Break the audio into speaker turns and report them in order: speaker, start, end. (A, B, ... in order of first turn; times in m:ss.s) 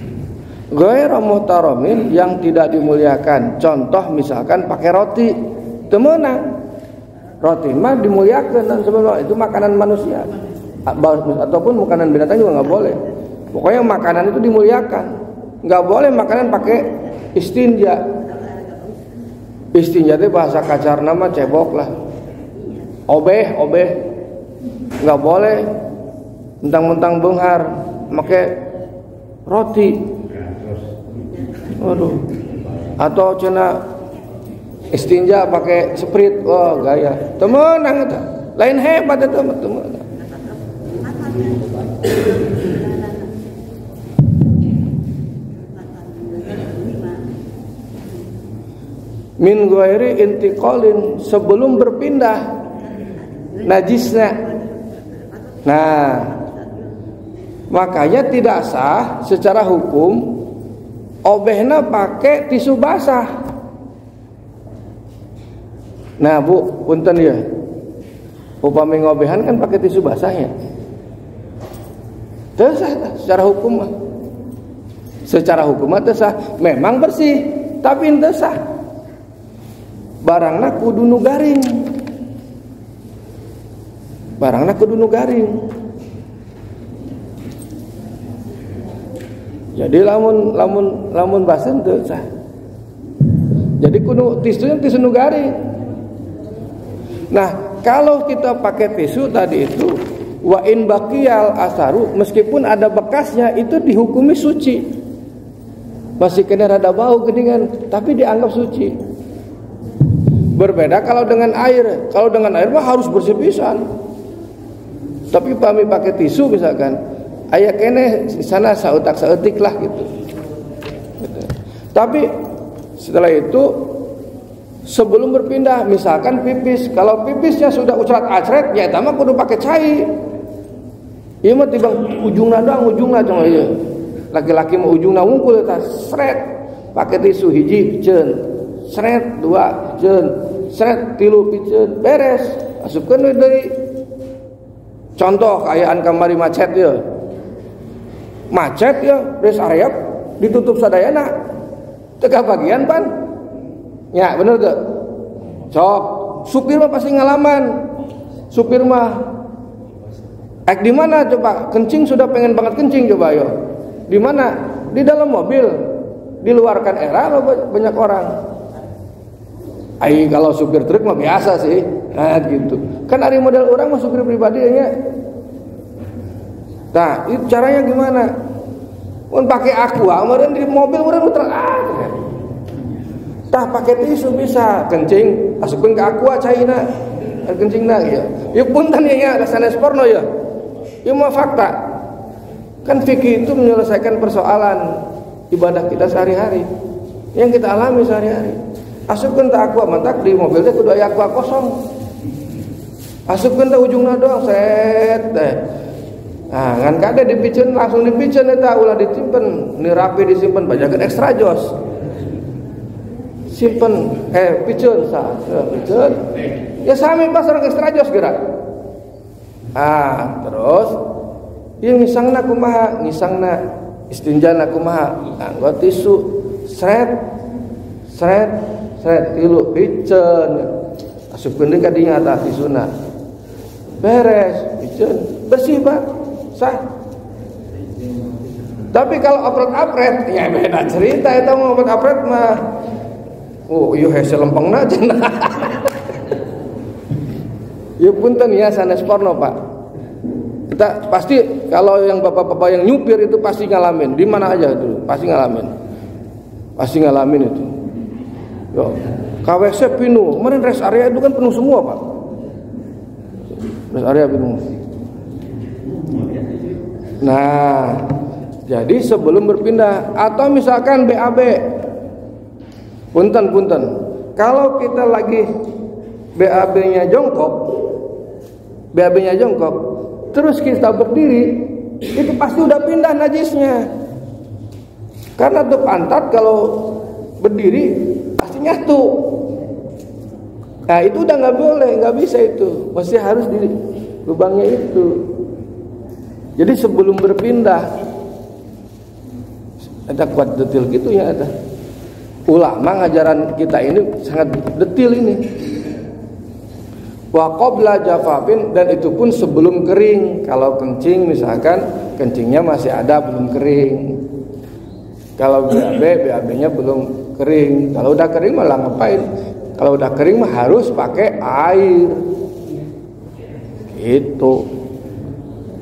0:00.7-0:06.5 A
0:07.4-0:10.3 A
0:10.8-0:13.0 A
0:13.5-0:18.0 A
0:19.7-0:21.9 A
0:23.1-0:24.0 A
0:25.0-0:25.7 A
0:26.6-0:28.7 A
0:29.4-0:30.2 A
0:31.8-0:32.3 A
0:33.0-0:33.8 A
0:34.9-0:40.0 A
0:49.4-0:52.4 A
0:53.6-0:54.4 A
0:55.6-0:56.4 A
0:57.7-1:00.4 A
1:01.2-1:03.3 A
1:06.2-1:07.4 A
1:08.6-1:10.5 A
1:12.6-1:13.9 A
1:15.2-1:18.6 A
1:20.2-1:21.9 A
1:24.4-1:25.6 A
1:29.7-1:32.2 A
1:33.8-1:35.5 A
1:37.3-1:44.9 A
1:46.2-1:49.0 A
1:50.5-1:53.8 A
1:55.3-1:57.0 A
1:57.5-2:00.1 A
2:01.2-2:02.3 A
2:03.0-2:04.1 A
2:04.8-2:10.1 A
2:11.4-2:23.7 A
2:25.2-2:27.0 A
2:28.5-2:31.3 A
2:32.2-2:33.1 A
2:34.1-2:35.0 A
2:35.7-2:37.8 A
2:38.5-2:39.3 A
2:40.7-2:43.5 A
2:44.1-2:45.8 A
2:46.4-2:48.3 A
2:50.0-2:54.9 A
2:56.9-2:58.3 A
2:59.3-3:02.2 A
3:03.5-3:06.8 A
3:07.4-3:10.2 A
3:11.0-3:11.8 A
3:12.8-3:16.7 A
3:17.3-3:21.8 A
3:23.3-3:25.7 A
3:26.5-3:31.7 A
3:33.5-3:38.4 A
3:39.7-3:41.0 A
3:41.8-3:47.3 A
3:48.1-3:50.7 A
3:51.3-3:52.9 A
3:54.0-3:56.8 A
3:58.9-4:02.6 A
4:03.7-4:05.9 A
4:08.0-4:09.6 A
4:10.7-4:15.7 A
4:16.8-4:17.7 A
4:18.7-4:22.0 A
4:23.7-4:24.6 A
4:27.2-4:28.1 A
4:28.7-4:31.7 A
4:33.1-4:35.5 A
4:36.4-4:37.8 A
4:38.9-4:43.9 A
4:45.4-4:49.4 A
4:50.9-4:55.3 A
4:56.6-4:57.9 A
5:00.1-5:01.5 A
5:02.5-5:05.4 A
5:07.3-5:14.2 A
5:15.4-5:22.2 A
5:23.9-5:24.7 A